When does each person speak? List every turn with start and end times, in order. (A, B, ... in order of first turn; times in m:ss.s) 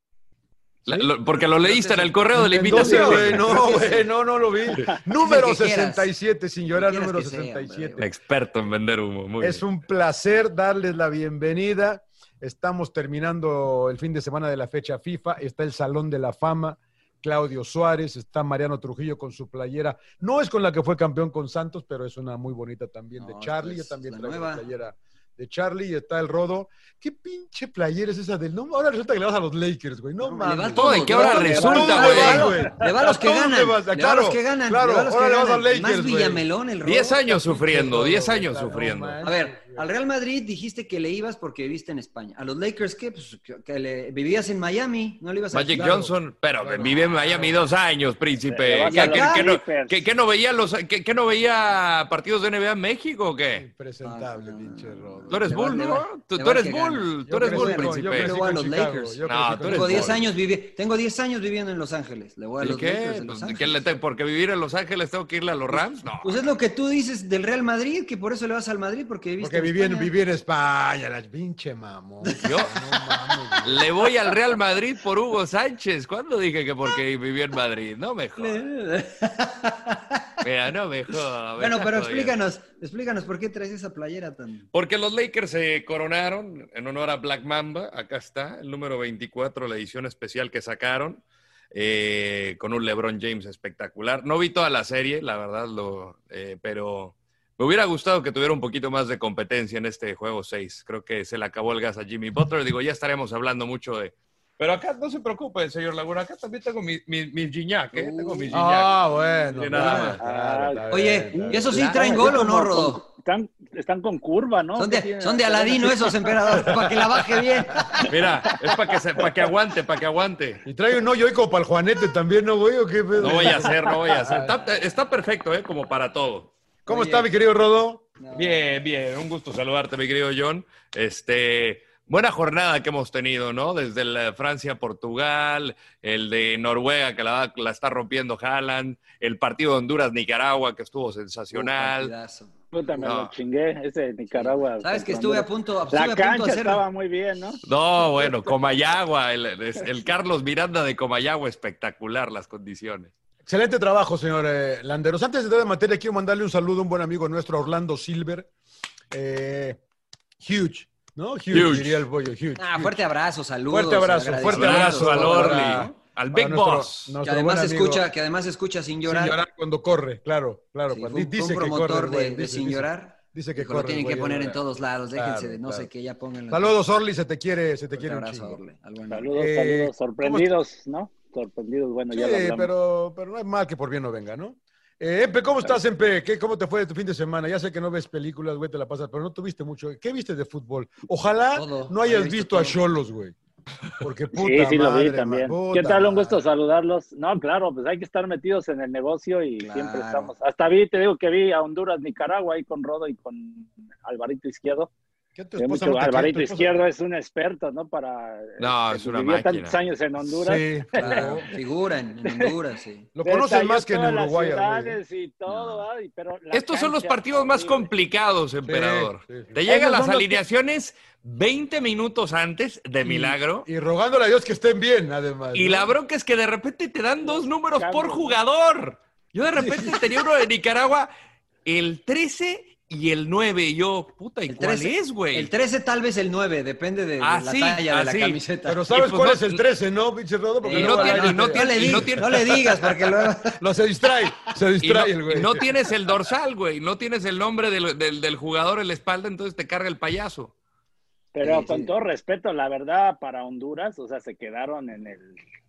0:00.8-0:03.8 A
0:01.6-0:08.0 B
0:02.6-0:04.0 C
0:05.1-0:06.1 C
0:06.6-0:08.1 C
0:08.0-0:09.7 A
0:09.4-0:36.4 B
0:23.2-0:24.6 C
0:30.2-0:37.2 C
0:30.7-0:32.5 A
0:31.4-0:32.7 D
0:36.8-0:39.2 A
0:37.3-0:39.9 B
0:39.2-0:45.9 C
0:45.5-0:53.6 A
0:45.7-0:47.7 B
0:48.5-0:50.0 D
0:48.8-0:49.5 C
0:53.5-0:55.6 B
0:54.0-1:03.8 C
0:55.3-0:58.4 A
0:57.2-1:00.2 B
0:59.2-1:00.2 A
1:02.6-1:06.5 A
1:05.7-1:10.1 C
1:09.4-1:13.9 B
1:12.4-1:12.7 A
1:13.6-1:18.6 A
1:18.4-1:20.3 C
1:20.4-1:22.4 A
1:21.6-1:24.6 C
1:24.7-1:48.9 A
1:47.9-1:48.6 C
1:48.5-1:51.7 B
1:49.5-1:50.2 A
1:49.7-1:50.2 C
1:50.2-1:56.1 D
1:50.9-1:53.0 C
1:51.7-1:52.4 A
1:54.8-1:58.1 C
1:56.5-1:57.2 A
1:58.0-2:00.6 A
2:00.6-2:04.5 B
2:03.2-2:06.5 A
2:06.8-2:07.3 C
2:06.8-2:08.0 B
2:08.2-2:08.6 C
2:08.3-2:22.1 A
2:21.5-2:23.1 C
2:22.7-2:27.6 D
2:23.0-2:23.3 A
2:24.3-2:26.8 C
2:27.6-2:33.1 A
2:28.2-2:28.5 D
2:33.4-2:38.5 B
2:39.1-2:39.8 B
2:40.4-2:43.0 B
2:41.5-2:42.0 A
2:42.6-2:45.9 C
2:43.7-2:48.1 B
2:44.5-2:47.2 A
2:47.2-2:49.4 C
2:49.0-2:54.6 B
2:50.9-2:56.7 C
2:55.1-2:55.9 B
2:56.5-2:58.6 B
2:58.0-2:59.3 C
2:59.1-3:02.7 D
2:59.3-3:00.5 B
3:02.1-3:13.4 B
3:11.5-3:12.8 C
3:14.0-3:16.5 B
3:14.3-3:24.9 D
3:19.6-3:20.3 C
3:25.3-3:26.8 B
3:25.6-3:31.4 D
3:28.6-3:29.8 A
3:30.2-3:31.5 B
3:31.0-3:33.1 C
3:33.1-3:35.0 B
3:33.2-3:37.9 D
3:35.4-3:35.9 C
3:36.5-3:43.7 A
3:38.6-3:39.6 B
3:39.6-3:40.4 D
3:43.0-3:45.9 B
3:45.5-3:51.1 A
3:47.2-3:48.4 D
3:49.5-3:50.0 B
3:51.6-3:55.5 A
3:54.5-3:58.8 C
3:57.2-3:59.6 A
3:58.6-4:05.7 B
4:00.6-4:03.6 C
4:00.7-4:02.9 A
4:04.8-4:10.5 A
4:11.3-4:15.4 D
4:11.4-4:11.9 C